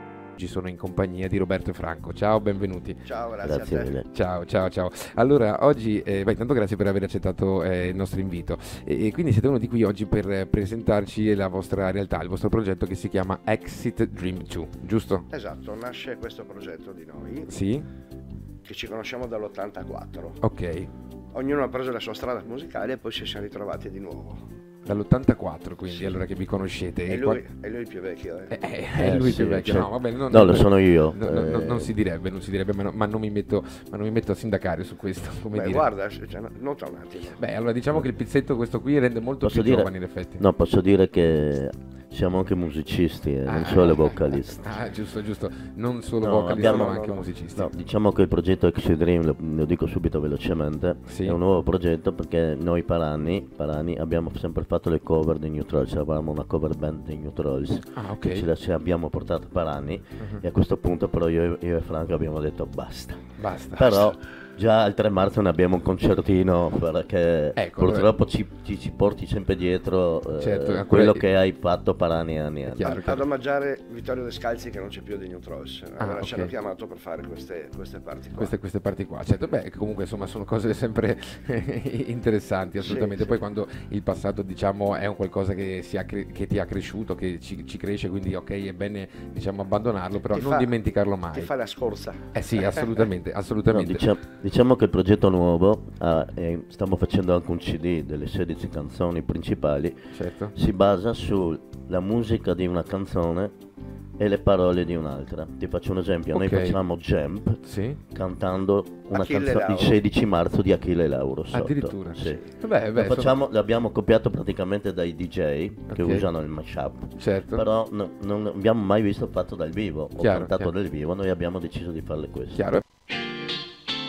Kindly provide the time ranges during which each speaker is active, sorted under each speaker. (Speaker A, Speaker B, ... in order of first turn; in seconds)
Speaker A: 0.4-3.0, 4.1-15.2, 17.5-17.9, 20.4-20.9, 24.9-27.4, 28.5-35.9, 37.3-40.4, 43.5-47.7, 51.1-51.4, 58.0-58.5, 63.4-64.2, 67.6-68.1, 70.4-71.2, 72.7-73.3, 76.0-76.5, 78.3-91.5, 92.3-94.2, 100.1-100.5, 106.3-106.8, 107.6-108.0, 111.5-113.4, 115.9-116.3, 117.2-117.7, 120.2-120.7, 122.5-122.8
Speaker B: 3.1-4.0, 15.3-17.5, 18.6-20.4, 21.3-24.5, 25.9-26.2, 27.1-28.6, 35.5-37.4, 46.5-47.3, 72.8-78.5, 82.8-83.4, 90.3-90.8, 91.3-92.8, 109.1-110.0
Speaker C: 3.4-4.1, 29.0-31.9, 39.4-44.8, 46.2-73.0, 93.7-103.5, 104.2-122.8